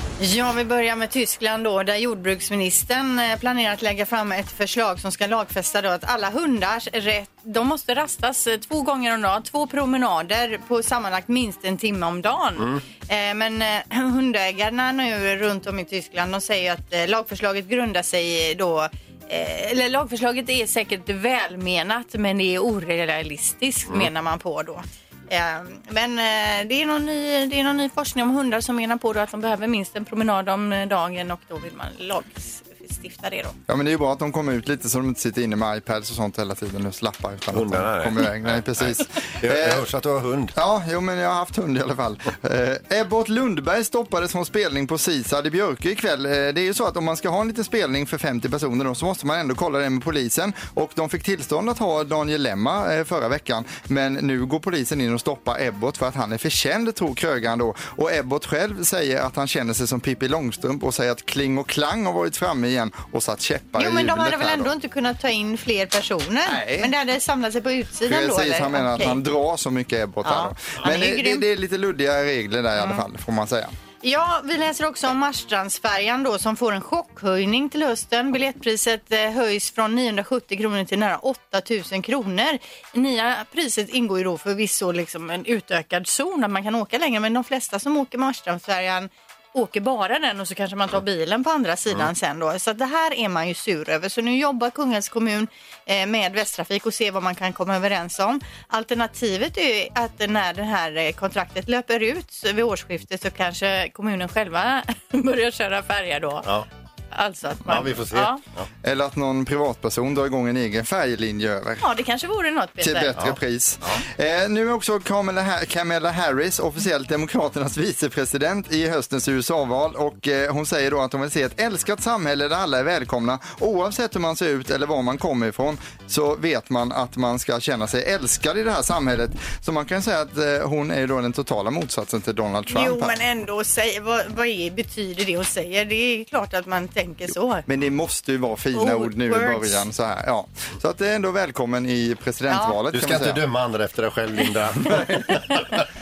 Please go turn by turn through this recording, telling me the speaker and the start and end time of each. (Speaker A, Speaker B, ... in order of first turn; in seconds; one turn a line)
Speaker A: 0.2-33.6
Speaker B: 33.7-39.9
Speaker C: 37.5-40.5
Speaker B: 40.5-64.7
Speaker A: 63.8-69.2
Speaker B: 66.5-66.9
Speaker B: 68.1-73.7
Speaker A: 70.2-71.5
Speaker A: 74.0-106.5
Speaker A: 107.1-108.4
Speaker C: 107.7-108.7
Speaker B: 108.8-111.8
Speaker A: 111.8-113.2
Speaker B: 112.8-133.2
Speaker C: 113.2-114.0
Speaker A: 132.7-137.7
Speaker B: 137.7-143.4
Speaker A: 138.7-139.8
Speaker A: 142.5-142.8
Speaker C: 142.9-145.9